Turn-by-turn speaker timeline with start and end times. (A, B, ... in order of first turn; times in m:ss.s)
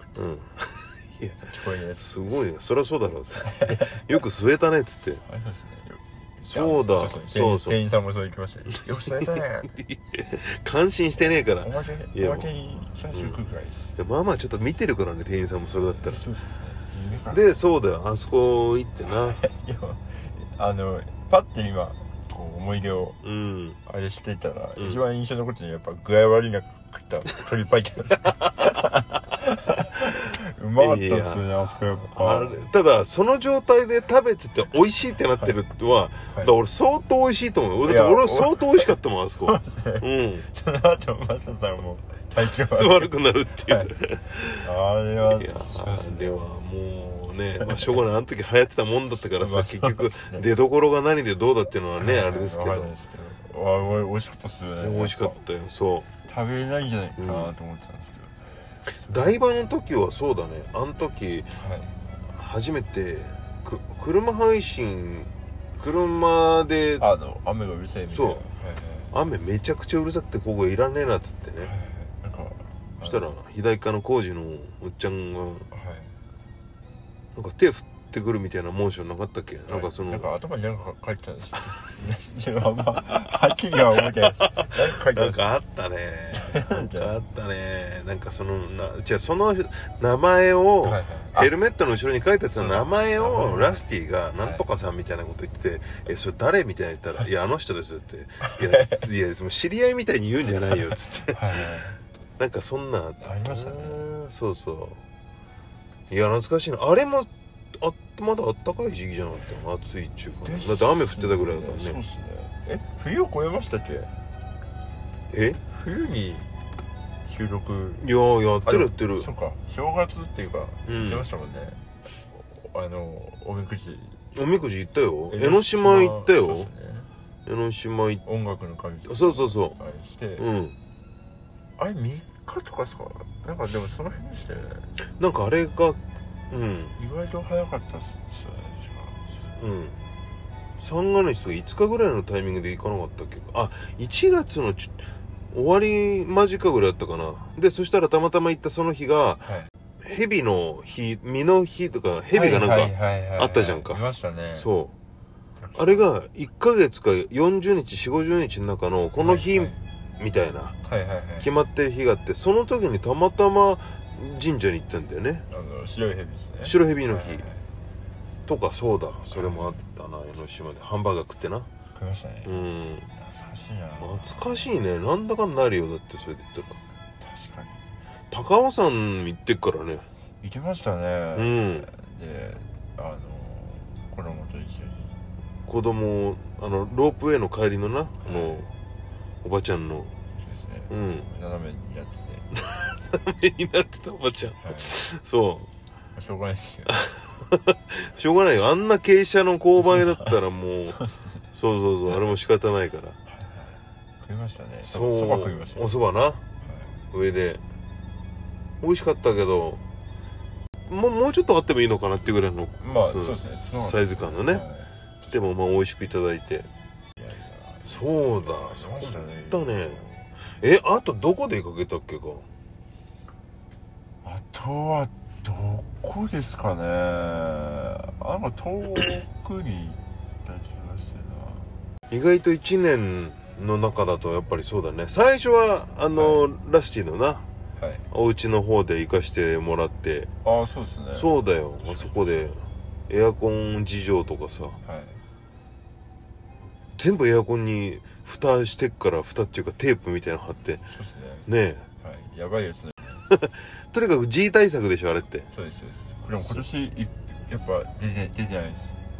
0:00.2-0:01.5 A
0:01.4-0:02.5 B
0:02.0-0:05.2 A
0:03.3-0:04.1 B
0:05.2-0:09.7 B
0:06.4-0:07.8 A
0:09.0-0:12.5 A
0:11.6-0:13.9 B
0:14.0-0:16.3 A
0:15.9-0:17.4 B
0:17.3-0:19.4 A
0:19.1-0:23.2 B
0:23.2-0:23.8 A
0:23.8-0:32.7 B
0:30.8-0:31.5 A
0:32.0-0:40.4 A
0:37.8-0:43.1 B
0:42.7-0:44.6 A
0:43.6-0:43.9 B
0:44.6-0:46.4 B
0:45.3-0:52.9 A
0:47.6-0:48.0 B
0:49.4-0:50.4 B
0:52.0-0:55.4 B
0:54.8-0:56.1 A
0:56.2-0:58.3 B
0:57.2-0:57.5 A
0:59.0-0:59.4 B
0:59.1-1:01.5 A
1:01.6-1:01.9 B
1:02.3-1:07.0 A
1:07.0-1:09.1 B
1:08.1-1:08.4 A
1:09.1-1:11.7 A
1:11.6-1:13.3 B
1:13.0-1:15.7 A
1:15.7-1:16.1 B
1:17.3-1:20.3 A
1:19.7-1:25.5 B
1:23.9-1:41.7 A
1:26.3-1:27.1 B
1:30.8-1:31.5 B
1:32.5-1:33.8 B
1:38.4-1:39.0 B
1:41.3-1:42.0 B
1:42.4-1:45.0 A
1:43.2-1:44.1 B
1:46.1-1:52.0 A
1:50.4-1:54.1 B
1:55.3-1:55.6 A
1:55.7-1:56.4 B
1:57.2-1:58.0 B
1:58.0-1:59.3 A
1:58.6-2:04.2 B
2:00.9-2:01.2 A
2:04.3-2:06.7 A
2:05.3-2:07.1 B
2:07.4-2:08.2 A
2:08.2-2:10.4 B
2:09.1-2:09.8 A
2:10.4-2:10.8 A
2:11.8-2:14.9 B
2:15.2-2:16.9 A
2:17.0-2:19.2 B
2:19.6-2:20.0 A
2:20.8-2:29.4 A
2:29.4-2:29.7 B
2:30.0-2:34.0 A
2:32.3-2:34.7 B
2:34.6-2:34.9 A
2:35.6-2:36.0 B
2:35.8-2:40.7 A
2:39.2-2:39.8 B
2:40.8-2:41.5 B
2:41.4-2:45.4 A
2:45.5-2:47.6 B
2:46.6-2:47.4 A
2:48.4-2:51.7 A
2:49.3-2:49.8 B
2:51.9-2:54.7 B
2:52.4-2:53.1 A
2:54.0-2:56.8 A
2:57.2-2:57.9 B
2:58.3-3:00.0 A
3:00.4-3:05.2 B
3:01.3-3:01.9 A
3:05.7-3:08.7 A
3:08.2-3:08.7 B
3:09.4-3:10.1 A
3:10.4-3:12.5 B
3:10.9-3:11.3 A
3:12.5-3:15.7 A
3:14.6-3:15.0 B
3:16.2-3:17.0 B
3:16.9-3:21.0 A
3:19.8-3:20.4 B
3:20.9-3:21.4 B
3:21.5-3:23.2 A
3:23.3-3:25.9 B
3:24.8-3:26.4 A
3:26.6-3:27.0 B
3:27.1-3:27.6 A
3:28.8-3:29.8 A
3:30.9-3:34.6 A
3:32.8-3:35.5 B
3:35.3-3:36.7 A
3:37.2-3:40.3 B
3:37.8-3:40.0 A
3:40.6-3:42.4 A
3:44.2-3:51.7 B
3:52.1-3:57.4 A
3:56.1-3:56.5 B
3:57.8-3:58.0 B
3:58.1-4:00.3 A
4:00.4-4:02.3 B
4:01.1-4:04.8 A
4:04.8-4:05.2 B
4:07.0-4:10.8 A
4:10.9-4:11.5 B
4:11.5-4:11.8 A
4:12.0-4:13.2 B
4:13.3-4:15.5 A
4:15.5-4:19.0 B
4:16.4-4:16.6 A